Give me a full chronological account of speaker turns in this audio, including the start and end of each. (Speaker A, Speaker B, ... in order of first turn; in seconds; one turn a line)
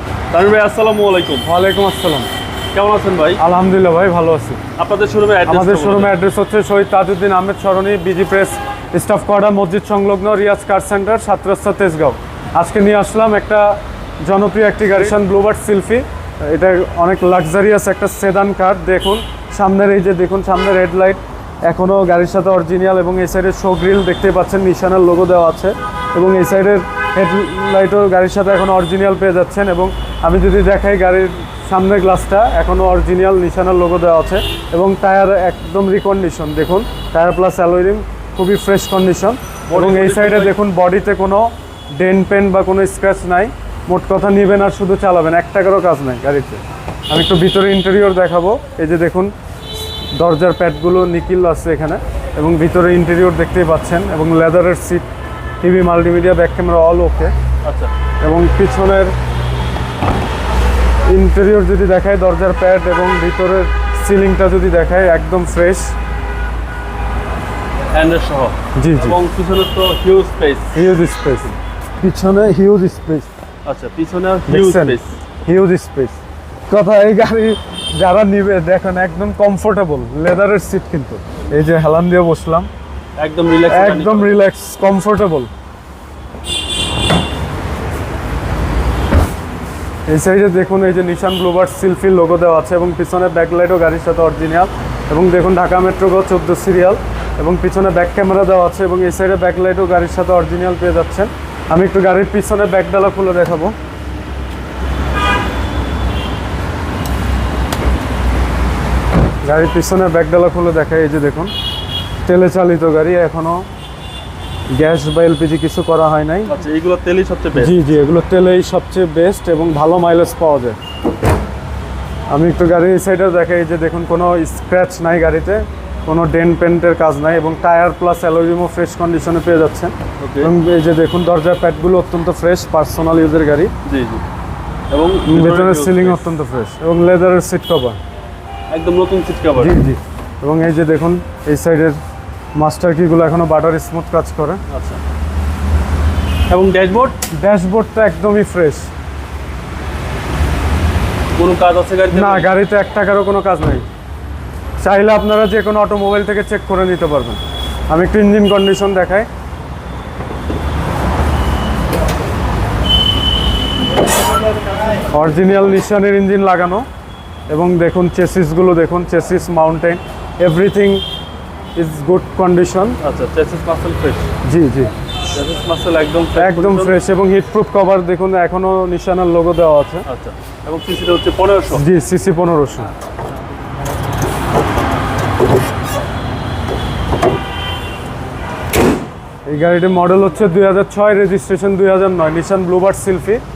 Speaker A: 0.3-1.5
Speaker B: 1.4-2.3
Speaker A: 2.7-3.4
Speaker B: 3.4-4.6
Speaker A: 4.8-6.1
Speaker B: 5.5-49.3
Speaker A: 39.7-40.5
Speaker B: 50.1-55.0
Speaker B: 55.6-57.3
Speaker A: 57.6-57.9
Speaker B: 58.2-59.1
Speaker B: 61.0-65.9
Speaker A: 67.9-70.7
Speaker B: 68.7-69.2
Speaker B: 70.7-73.3
Speaker A: 73.6-75.1
Speaker B: 74.5-82.7
Speaker A: 83.2-84.4
Speaker B: 83.7-85.5
Speaker B: 90.1-103.7
Speaker B: 109.4-111.5
Speaker B: 112.2-113.7
Speaker B: 114.7-116.5
Speaker A: 116.5-117.8
Speaker B: 117.5-120.8
Speaker B: 122.3-133.7
Speaker A: 130.2-130.5
Speaker A: 133.8-134.2
Speaker A: 134.9-136.2
Speaker B: 135.3-138.0
Speaker A: 138.7-139.8
Speaker B: 139.6-142.0
Speaker B: 142.5-144.6
Speaker A: 144.7-145.0
Speaker A: 146.5-147.2
Speaker B: 147.3-148.9
Speaker A: 151.3-152.5
Speaker B: 152.1-153.9
Speaker B: 154.8-159.3
Speaker B: 165.1-166.8
Speaker B: 167.5-171.0
Speaker B: 171.8-173.0
Speaker A: 173.0-174.3
Speaker B: 174.4-174.9
Speaker A: 175.3-177.0
Speaker B: 176.3-180.1
Speaker A: 180.1-181.8
Speaker B: 181.7-182.9
Speaker B: 189.5-193.4